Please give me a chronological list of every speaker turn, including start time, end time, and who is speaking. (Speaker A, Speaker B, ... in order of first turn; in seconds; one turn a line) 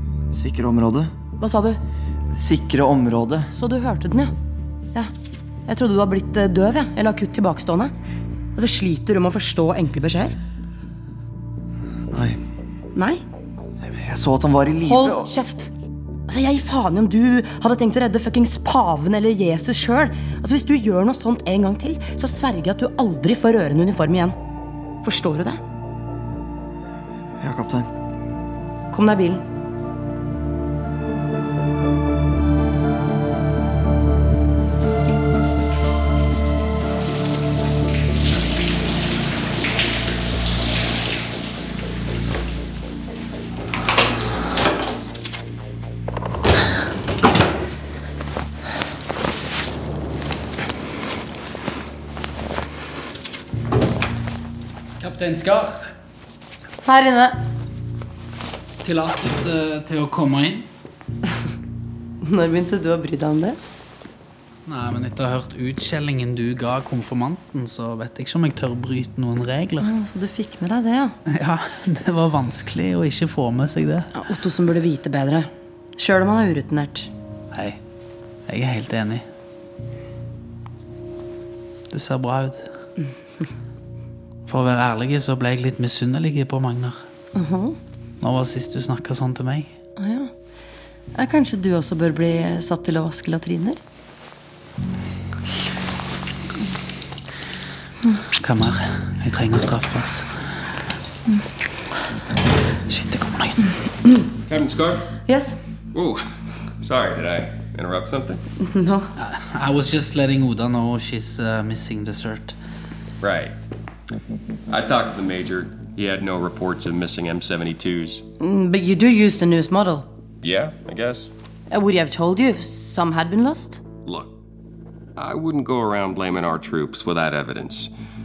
Speaker A: 0.3-1.1
Speaker B: 1.4-1.8
Speaker A: 2.4-3.5
Speaker B: 3.5-4.3
Speaker B: 5.7-7.9
Speaker B: 8.6-10.3
Speaker A: 12.1-12.4
Speaker B: 12.9-13.2
Speaker A: 13.9-15.3
Speaker B: 14.9-15.7
Speaker B: 16.3-24.4
Speaker B: 25.0-25.6
Speaker A: 27.4-27.9
Speaker B: 28.9-29.4
Speaker C: 55.0-55.9
Speaker B: 56.9-57.4
Speaker C: 58.8-60.7
Speaker B: 62.2-63.6
Speaker C: 64.7-69.9
Speaker B: 69.8-71.2
Speaker C: 71.3-74.1
Speaker B: 74.1-77.1
Speaker C: 77.5-77.8
Speaker C: 78.5-79.2
Speaker C: 81.9-82.7
Speaker C: 84.5-87.0
Speaker B: 87.3-87.8
Speaker C: 88.2-89.7
Speaker B: 90.0-90.3
Speaker B: 91.1-93.8
Speaker C: 98.4-100.3
Speaker C: 102.9-103.6
Speaker D: 104.5-105.1
Speaker B: 105.3-105.6
Speaker D: 105.9-106.2
Speaker D: 106.8-108.4
Speaker B: 108.6-109.1
Speaker C: 109.2-112.6
Speaker D: 113.2-113.5
Speaker D: 114.7-118.2
Speaker B: 118.4-120.1
Speaker D: 120.4-121.3
Speaker B: 121.7-123.8
Speaker D: 124.0-124.3
Speaker D: 125.2-127.9